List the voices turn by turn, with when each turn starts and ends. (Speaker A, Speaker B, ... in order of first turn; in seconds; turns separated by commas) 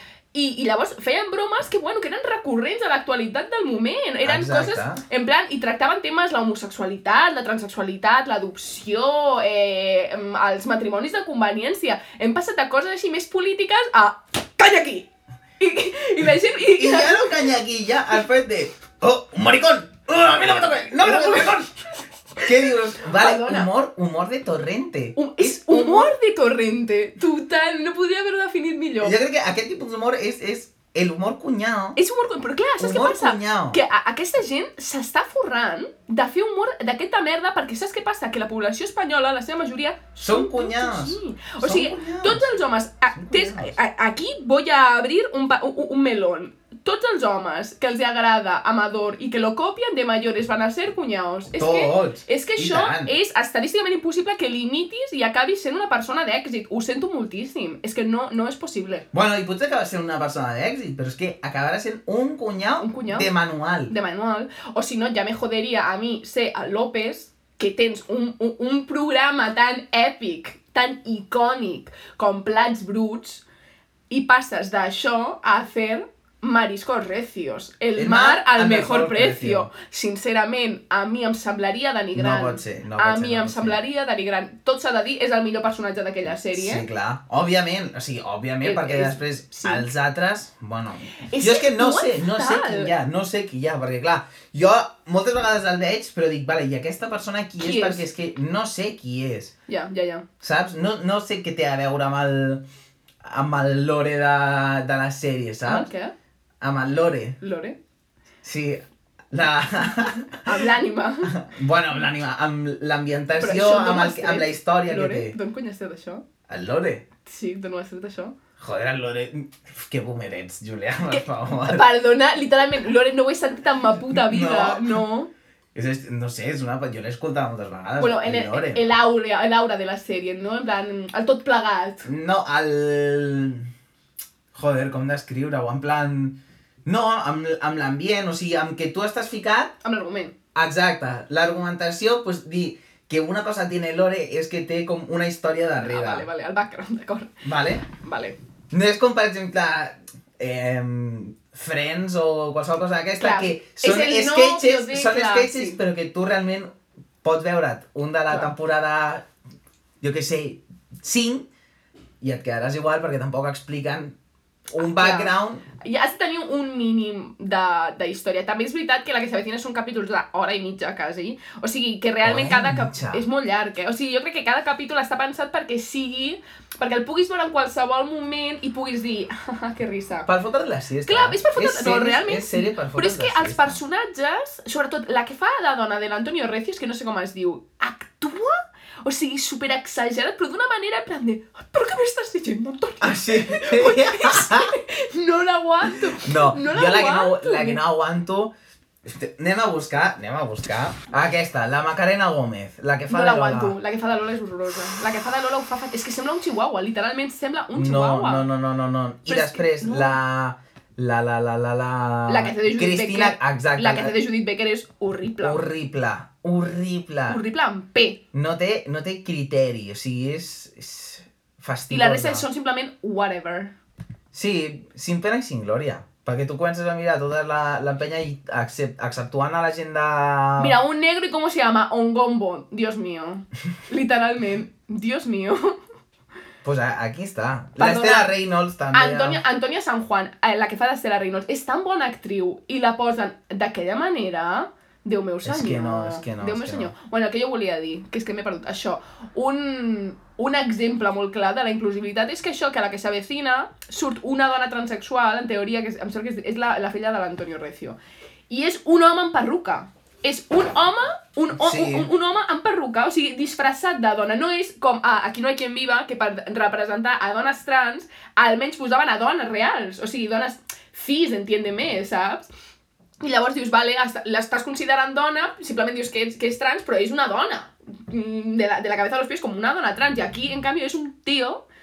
Speaker A: 0.3-15.1, Speaker B: 4.2-5.0, Speaker A: 15.6-17.3, Speaker B: 16.8-21.7, Speaker A: 21.0-21.6, Speaker B: 22.4-26.1, Speaker A: 23.1-23.7, Speaker A: 25.2-29.1, Speaker B: 29.0-32.0, Speaker A: 32.0-59.1, Speaker B: 32.8-33.8, Speaker B: 40.2-42.5, Speaker B: 43.1-43.8, Speaker B: 51.6-53.1, Speaker B: 59.1-63.9, Speaker A: 62.8-63.3, Speaker A: 63.9-73.4, Speaker A: 74.1-86.8, Speaker B: 78.0-79.7, Speaker B: 82.2-83.8, Speaker B: 86.5-99.5, Speaker A: 88.6-89.9, Speaker A: 91.3-92.9, Speaker A: 97.6-98.0, Speaker A: 99.7-100.3, Speaker B: 100.4-102.7, Speaker B: 103.2-105.9, Speaker A: 105.6-106.1, Speaker B: 106.6-107.4, Speaker A: 107.4-107.8, Speaker B: 108.4-110.5, Speaker A: 110.5-111.3, Speaker B: 111.3-115.4, Speaker A: 113.4-116.2, Speaker B: 116.5-117.0, Speaker A: 117.2-118.4, Speaker B: 118.6-121.8, Speaker A: 121.1-125.3, Speaker B: 124.1-125.0, Speaker B: 125.8-128.8, Speaker A: 128.0-132.1, Speaker B: 132.1-133.7, Speaker B: 134.5-139.7, Speaker A: 139.8-140.3, Speaker B: 140.6-146.3, Speaker A: 145.8-148.4, Speaker B: 147.4-147.8, Speaker B: 148.7-159.3, Speaker A: 153.2-155.8, Speaker B: 160.0-161.5, Speaker B: 162.2-164.2, Speaker B: 164.7-165.7, Speaker A: 164.8-180.3, Speaker B: 172.2-173.2, Speaker B: 180.3-183.8, Speaker A: 181.1-197.8, Speaker B: 193.0-194.8, Speaker B: 196.2-198.5, Speaker B: 199.1-203.8, Speaker A: 203.1-208.5, Speaker B: 207.8-214.1, Speaker A: 209.3-210.2, Speaker A: 212.3-215.6, Speaker B: 215.4-217.4, Speaker A: 217.3-218.2, Speaker B: 218.3-222.5, Speaker A: 221.9-223.8, Speaker B: 224.3-230.7, Speaker A: 230.6-235.8, Speaker B: 236.6-239.4, Speaker A: 237.8-238.3, Speaker A: 238.9-258.0, Speaker B: 245.4-246.9, Speaker A: 258.5-272.5, Speaker B: 261.6-262.1, Speaker A: 273.2-281.6